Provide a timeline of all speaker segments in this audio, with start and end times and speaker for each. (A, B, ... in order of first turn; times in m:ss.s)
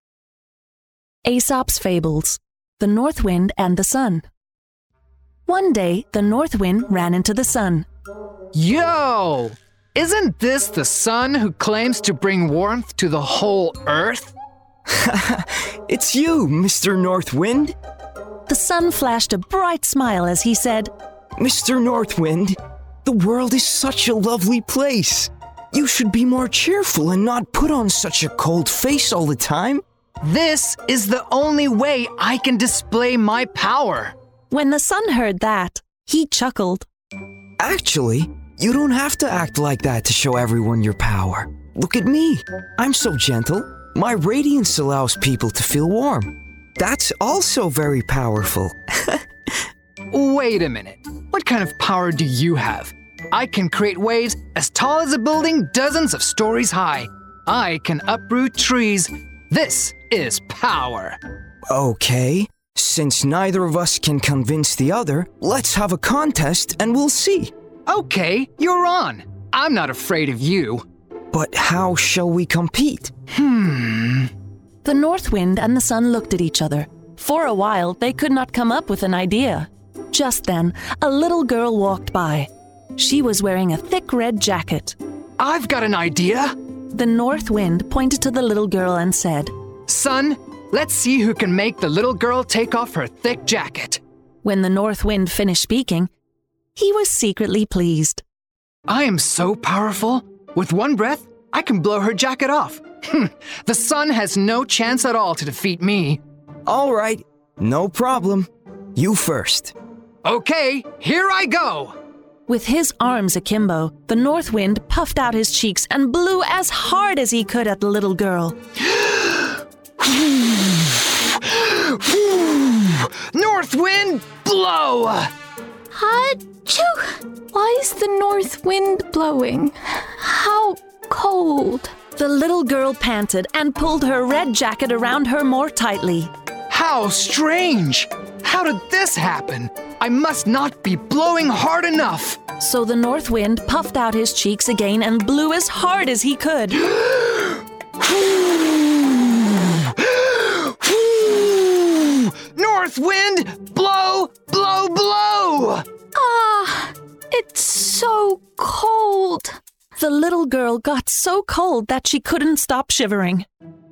0:01.2-0:04.2 A
0:05.4-0:07.9 A
0:08.5-0:14.3 B
0:14.9-0:17.8 C
0:18.5-0:20.9 A
0:21.4-0:29.8 C
0:30.2-0:34.2 B
0:34.5-0:36.9 A
0:37.6-0:49.2 C
0:50.1-1:01.2 B
1:01.7-1:07.5 C
1:07.9-1:10.8 B
1:11.3-1:13.1 C
1:13.4-1:14.3 B
1:14.8-1:25.0 A
1:25.4-1:26.6 B
1:26.9-1:29.5 A
1:29.9-1:34.0 B
1:34.4-1:36.1 A
1:36.8-1:38.2 A
1:38.9-1:46.2 B
1:46.6-1:49.7 C
1:50.2-1:52.0 B
1:52.5-1:58.6 A
1:58.9-2:05.3 B
2:05.9-2:12.0 D
2:12.2-2:16.3 A
2:16.7-2:22.4 B
2:22.6-2:26.9 A
2:27.1-2:35.8 B
2:36.2-2:39.6 D
2:40.0-2:43.5 A